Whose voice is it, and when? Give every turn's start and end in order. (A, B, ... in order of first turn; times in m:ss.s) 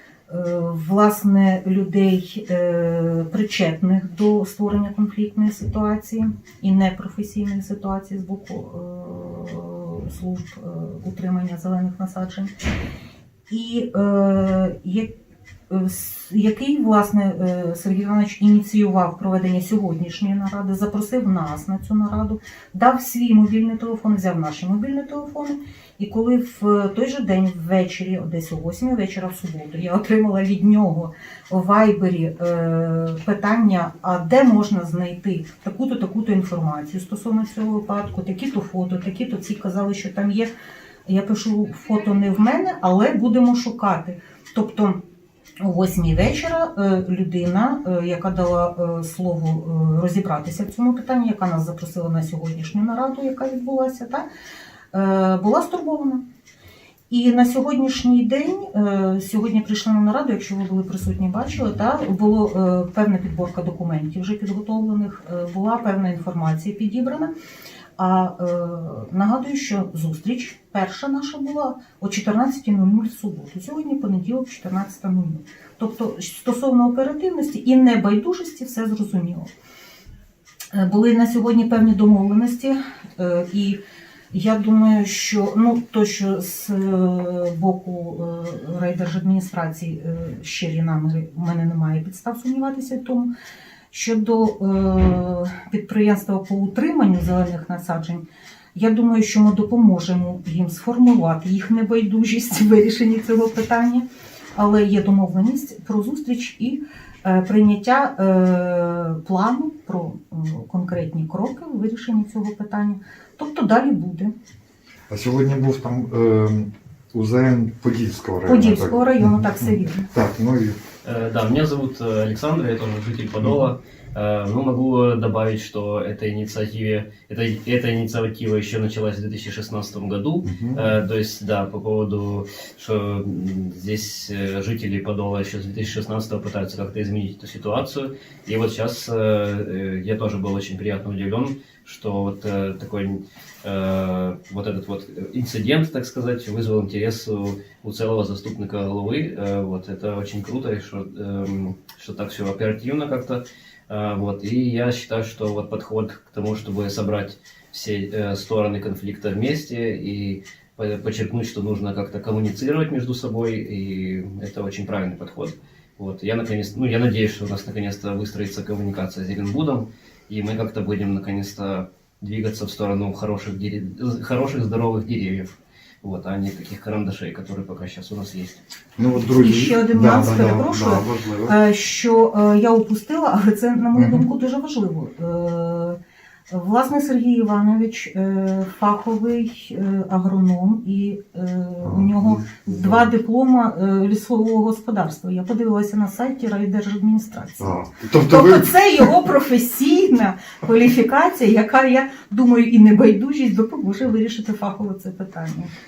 0:00.3-0:12.5 A
0:13.5-0:15.1 A
0:15.7-0:40.5 A
0:41.0-0:45.0 A
0:45.6-0:54.2 A
0:54.9-0:56.2 A
0:57.1-1:07.3 A
1:08.0-1:19.5 A
1:20.7-1:23.8 A
1:24.3-1:33.3 A
1:33.9-1:54.3 A
1:55.1-2:00.8 B
1:58.4-2:00.0 A
2:01.0-2:55.5 C
2:10.4-2:10.9 B
2:56.0-2:58.6 C
2:59.0-3:01.6 B
2:59.4-3:06.0 A
3:03.9-3:04.3 B
3:06.5-3:25.7 A
3:11.8-3:13.1 B
3:17.6-3:19.1 B